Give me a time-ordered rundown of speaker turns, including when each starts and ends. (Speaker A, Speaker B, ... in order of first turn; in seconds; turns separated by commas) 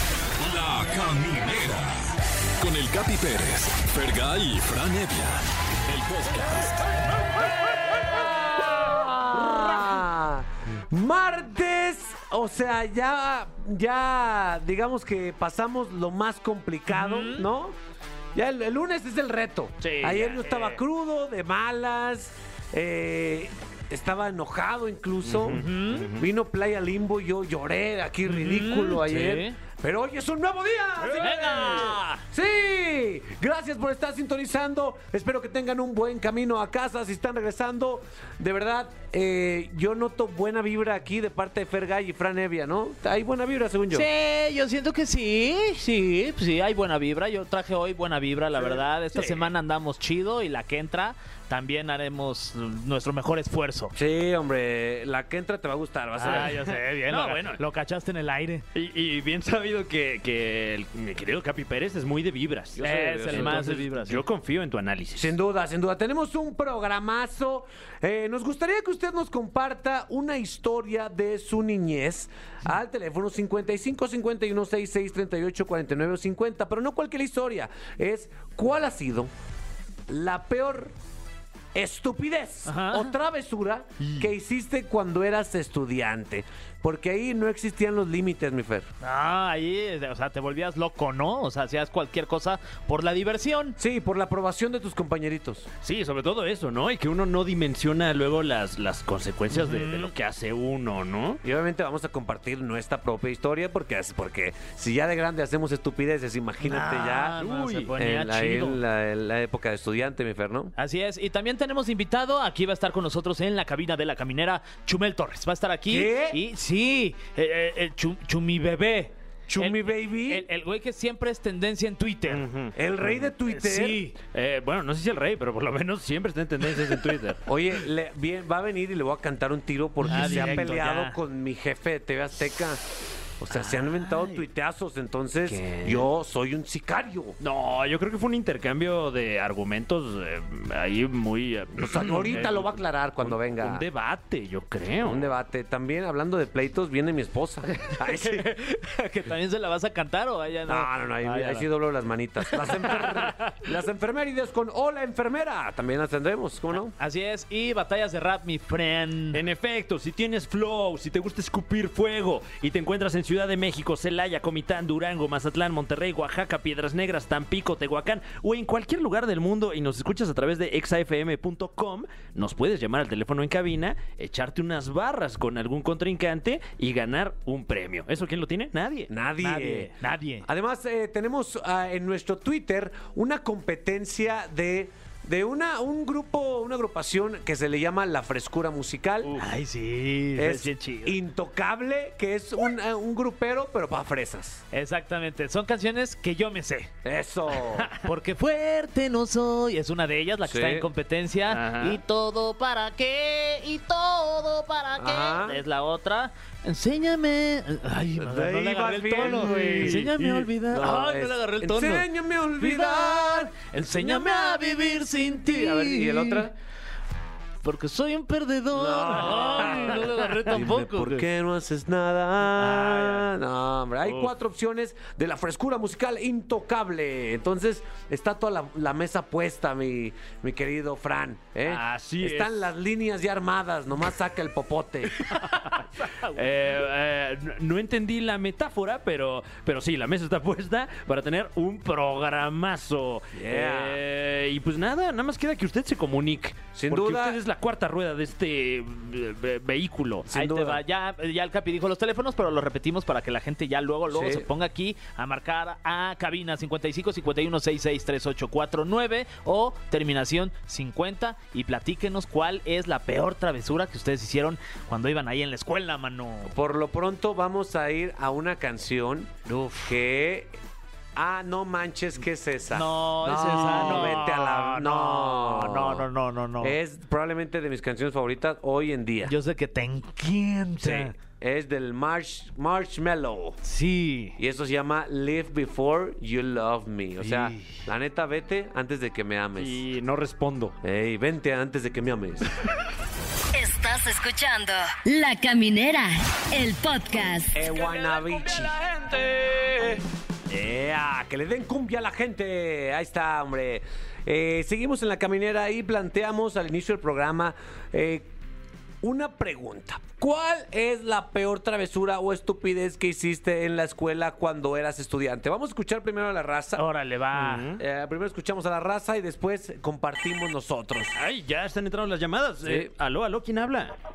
Speaker A: 0.4-7.0, Speaker B: 7.7-17.8, Speaker C: 16.9-17.4, Speaker B: 18.3-44.1, Speaker D: 19.8-20.7, Speaker D: 25.2-26.2, Speaker C: 25.5-26.1, Speaker C: 28.2-29.6, Speaker D: 31.1-31.9, Speaker C: 31.2-32.2, Speaker C: 43.9-53.9, Speaker B: 53.9-56.6, Speaker C: 56.2-58.6, Speaker D: 56.2-57.6, Speaker D: 58.7-65.3, Speaker B: 62.7-63.8, Speaker C: 62.8-64.2, Speaker B: 65.2-79.3, Speaker B: 80.1-80.9, Speaker B: 81.7-88.9, Speaker C: 82.7-83.1, Speaker C: 84.0-84.3, Speaker C: 89.0-93.8, Speaker B: 93.8-95.7, Speaker D: 95.8-101.4, Speaker C: 99.5-100.1, Speaker B: 101.4-107.4, Speaker C: 106.6-108.8, Speaker D: 107.4-107.9, Speaker B: 107.9-110.7, Speaker C: 110.8-122.4, Speaker B: 115.9-116.4, Speaker B: 119.5-120.5, Speaker D: 122.3-122.7, Speaker B: 122.7-124.0, Speaker C: 123.4-124.1, Speaker D: 124.3-127.4, Speaker B: 127.5-132.8, Speaker C: 130.1-131.2, Speaker D: 130.1-130.6, Speaker B: 133.4-137.4, Speaker D: 135.4-136.1, Speaker D: 137.4-145.3, Speaker B: 141.8-143.8, Speaker B: 145.0-148.5, Speaker C: 148.2-151.7, Speaker B: 150.7-156.9, Speaker D: 153.0-153.5, Speaker C: 157.0-159.4, Speaker D: 159.3-179.1, Speaker B: 179.1-179.9, Speaker C: 179.4-180.5, Speaker B: 180.4-189.3, Speaker C: 189.4-191.2, Speaker B: 190.3-194.6, Speaker C: 194.7-196.9, Speaker B: 197.0-197.9, Speaker C: 198.0-212.1, Speaker B: 200.4-200.9, Speaker D: 201.5-202.0, Speaker B: 205.0-205.6, Speaker B: 208.2-214.6, Speaker D: 209.4-209.9, Speaker C: 212.6-216.5, Speaker B: 215.4-216.5, Speaker C: 217.6-221.2, Speaker B: 218.7-235.1, Speaker D: 219.4-219.8, Speaker C: 222.6-223.3, Speaker D: 231.7-232.7, Speaker D: 235.2-250.3, Speaker B: 243.3-244.0, Speaker B: 246.7-247.4, Speaker B: 250.3-250.8, Speaker C: 250.3-266.5, Speaker B: 254.1-254.5, Speaker B: 266.4-269.3, Speaker C: 269.5-269.9, Speaker B: 269.9-270.6, Speaker B: 271.1-276.1, Speaker C: 272.7-276.8, Speaker B: 276.6-279.3, Speaker C: 279.2-281.1, Speaker B: 280.8-283.6, Speaker C: 283.6-284.4, Speaker B: 284.4-289.8, Speaker C: 287.2-287.8, Speaker D: 289.6-290.7, Speaker B: 290.8-292.5, Speaker E: 293.5-297.5, Speaker B: 297.5-298.8, Speaker D: 298.6-299.8, Speaker B: 300.5-308.3, Speaker B: 309.0-316.8, Speaker C: 316.8-317.7, Speaker D: 317.3-317.8, Speaker B: 317.8-321.1, Speaker D: 321.1-323.9, Speaker B: 322.6-322.9